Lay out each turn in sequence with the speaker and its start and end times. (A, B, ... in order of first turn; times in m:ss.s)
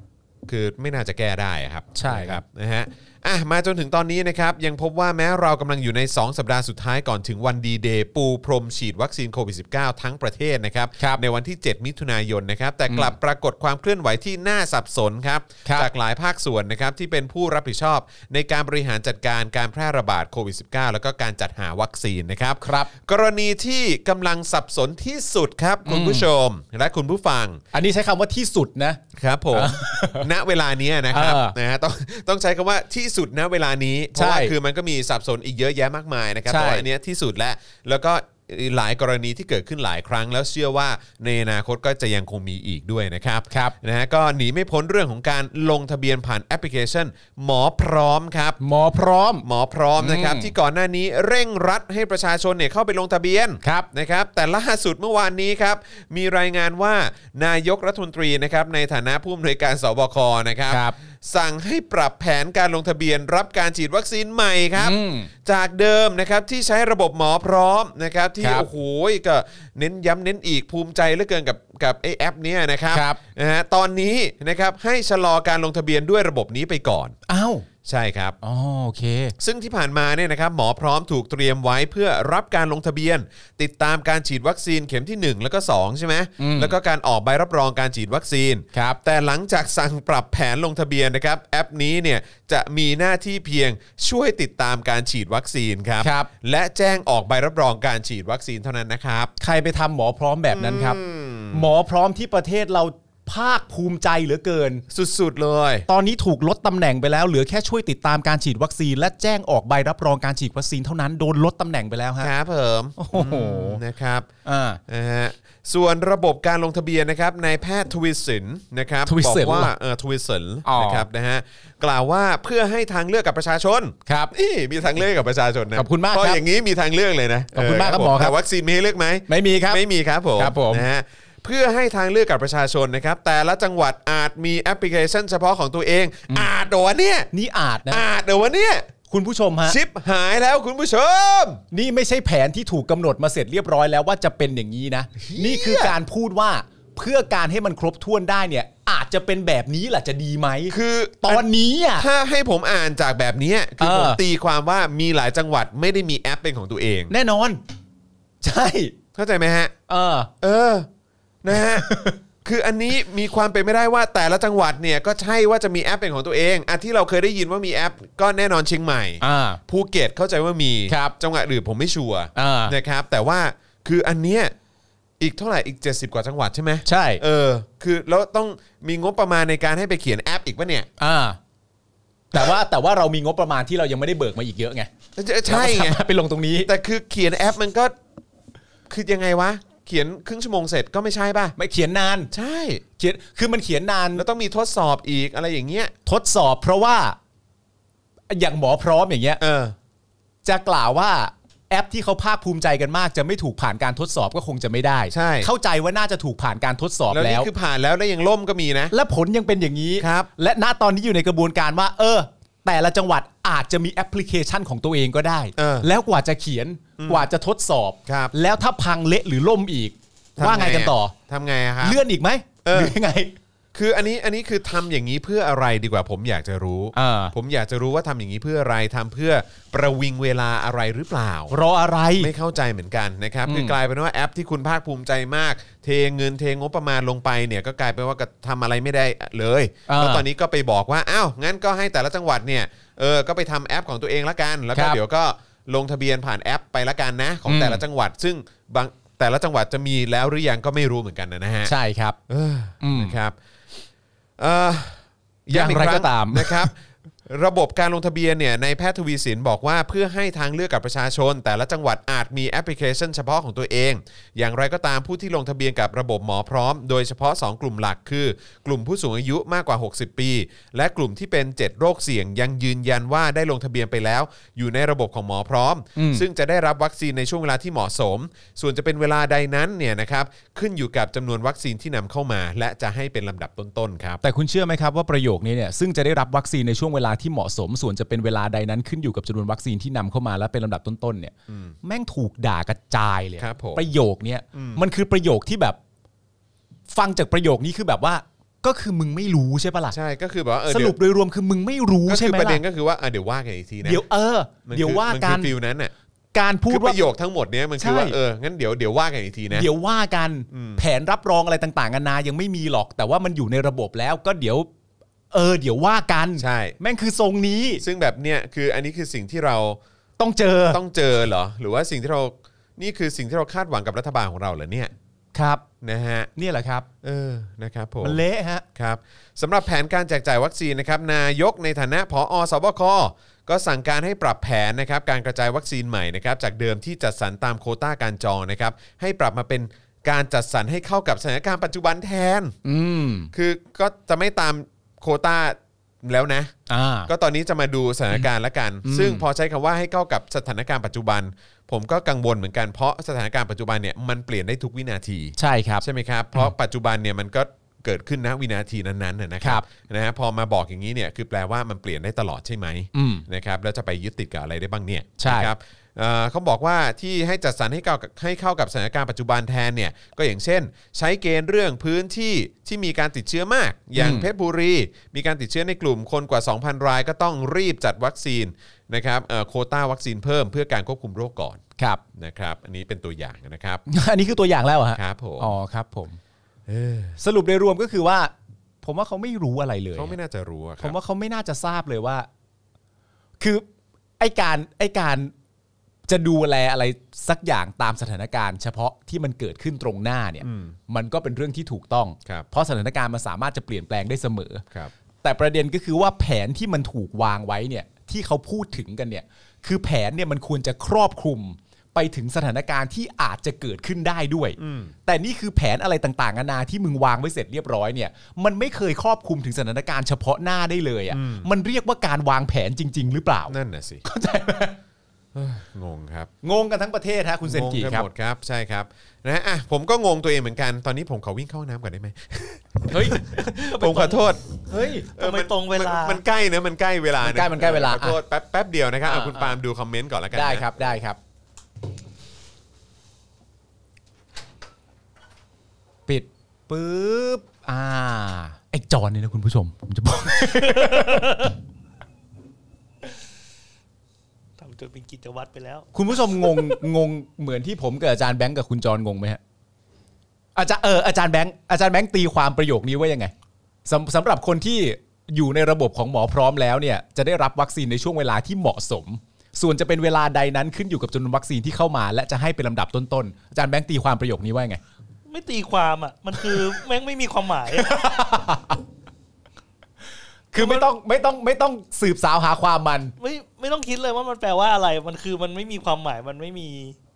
0:00.5-0:27.6 A
0:02.0-0:02.4 B
0:12.9-0:13.2 B
0:22.6-0:22.9 B
0:25.8-0:26.3 B
0:27.7-0:29.0 B
0:29.2-0:48.6 A
0:29.5-0:30.3 B
0:31.1-0:31.6 B
0:34.2-0:34.5 B
0:36.5-0:36.8 B
0:48.6-0:49.5 B
0:49.4-1:17.2 A
0:50.0-0:50.5 B
0:53.6-0:53.9 B
1:00.7-1:01.0 B
1:04.8-1:05.3 B
1:08.4-1:08.7 B
1:12.9-1:13.2 B
1:17.3-1:17.7 B
1:17.8-1:18.4 A
1:18.4-1:19.4 B
1:19.4-1:39.3 A
1:26.4-1:26.7 B
1:28.7-1:29.0 B
1:36.0-1:36.3 B
1:39.4-1:41.0 B
1:40.5-1:41.7 A
1:41.5-1:44.8 B
1:44.9-1:45.9 A
1:45.9-1:52.3 B
1:52.2-1:54.3 A
1:53.0-1:53.8 B
1:54.4-1:54.8 B
1:54.9-2:17.3 A
1:59.1-1:59.7 B
2:00.6-2:01.1 B
2:04.1-2:04.3 B
2:05.8-2:06.4 B
2:07.5-2:08.4 B
2:09.3-2:09.8 B
2:10.4-2:10.9 B
2:17.3-2:18.0 B
2:17.9-2:18.9 A
2:19.1-2:19.8 B
2:19.7-2:21.6 A
2:21.7-2:32.1 B
2:25.2-2:26.0 A
2:30.7-2:37.1 A
2:33.8-2:34.2 B
2:37.1-2:37.6 B
2:38.4-2:39.0 B
2:39.2-2:39.7 A
2:39.9-2:40.3 B
2:40.4-2:40.9 A
2:41.4-2:41.9 A
2:41.5-2:42.2 B
2:42.4-2:54.5 A
2:49.2-2:49.6 B
2:50.9-2:51.2 B
2:52.4-2:52.8 B
2:55.2-3:00.9 A
2:56.9-2:57.2 B
3:01.0-3:01.4 B
3:02.3-3:04.9 B
3:05.2-3:06.0 A
3:05.5-3:06.7 B
3:06.6-3:08.0 A
3:08.9-3:11.6 A
3:11.6-3:12.3 B
3:12.3-3:12.8 A
3:13.0-3:14.3 B
3:14.2-3:15.9 A
3:16.1-3:17.2 B
3:18.3-3:19.4 B
3:19.4-3:19.8 A
3:20.4-3:27.5 B
3:25.1-3:25.5 A
3:27.1-3:28.9 A
3:28.9-3:41.2 B
3:30.0-3:30.3 A
3:35.6-3:35.9 A
3:37.0-3:37.3 A
3:38.1-3:38.3 A
3:40.4-3:42.0 A
3:41.8-3:43.4 B
3:42.6-3:42.9 A
3:43.7-3:51.6 A
3:46.9-3:47.3 B
3:51.5-3:52.3 B
3:52.2-4:11.7 A
3:53.5-3:53.8 B
3:59.9-4:00.2 B
4:04.7-4:05.0 B
4:07.5-4:07.8 B
4:11.7-4:12.2 B
4:12.3-4:13.4 A
4:12.8-4:13.2 B
4:14.4-4:44.2 A
4:15.5-4:16.7 B
4:36.0-4:36.3 B
4:44.2-4:55.8 B
4:51.5-4:51.8 A
4:53.4-4:53.8 A
4:54.5-4:54.8 A
4:56.9-5:00.0 B
4:59.9-5:01.0 A
5:00.7-5:02.6 B
5:02.1-5:04.0 A
5:03.8-5:05.5 B
5:04.7-5:05.9 A
5:06.3-5:07.0 B
5:06.7-5:09.7 A
5:07.8-5:08.2 B
5:09.5-5:14.7 B
5:10.5-5:10.8 A
5:15.3-5:17.8 B
5:16.4-5:16.8 A
5:17.8-5:19.8 A
5:20.2-5:20.8 B
5:20.7-5:24.9 A
5:25.4-5:25.6 B
5:25.8-5:26.3 A
5:26.4-5:26.9 B
5:27.0-5:28.2 A
5:28.0-5:28.6 B
5:28.8-5:42.6 A
5:42.6-5:43.3 B
5:43.3-5:46.5 A
5:46.7-5:47.1 B
5:47.1-6:21.6 A
5:48.8-5:49.2 B
5:55.4-5:55.8 B
6:02.9-6:03.2 B
6:05.2-6:05.5 B
6:14.0-6:14.3 B
6:22.2-6:23.8 A
6:23.9-6:26.2 B
6:24.9-6:25.6 A
6:26.7-6:27.2 A
6:27.2-6:30.2 B
6:30.0-6:31.0 A
6:30.8-6:32.3 B
6:33.4-6:33.6 B
6:34.2-6:35.3 B
6:36.1-6:44.6 B
6:40.4-6:40.8 A
6:45.2-7:04.8 B
6:54.6-6:54.9 A
7:01.1-7:01.5 A
7:03.5-7:04.0 A
7:05.4-7:06.3 A
7:06.4-7:08.1 B
7:07.4-7:14.5 A
7:12.9-7:13.2 B
7:13.4-7:14.3 C
7:14.7-7:15.1 B
7:15.2-7:20.7 A
7:15.2-7:16.2 C
7:17.2-7:18.2 B
7:19.1-7:19.6 B
7:20.3-7:21.2 B
7:26.1-7:31.5 B
7:30.4-7:31.5 C
7:34.6-7:36.8 C
7:35.9-7:39.4 B
7:40.6-7:43.3 B
7:43.9-7:54.8 B
7:55.3-7:58.0 C
7:56.4-7:56.8 B
7:57.7-7:58.8 B
8:00.5-8:03.1 B
8:00.6-8:00.9 C
8:03.2-8:07.0 C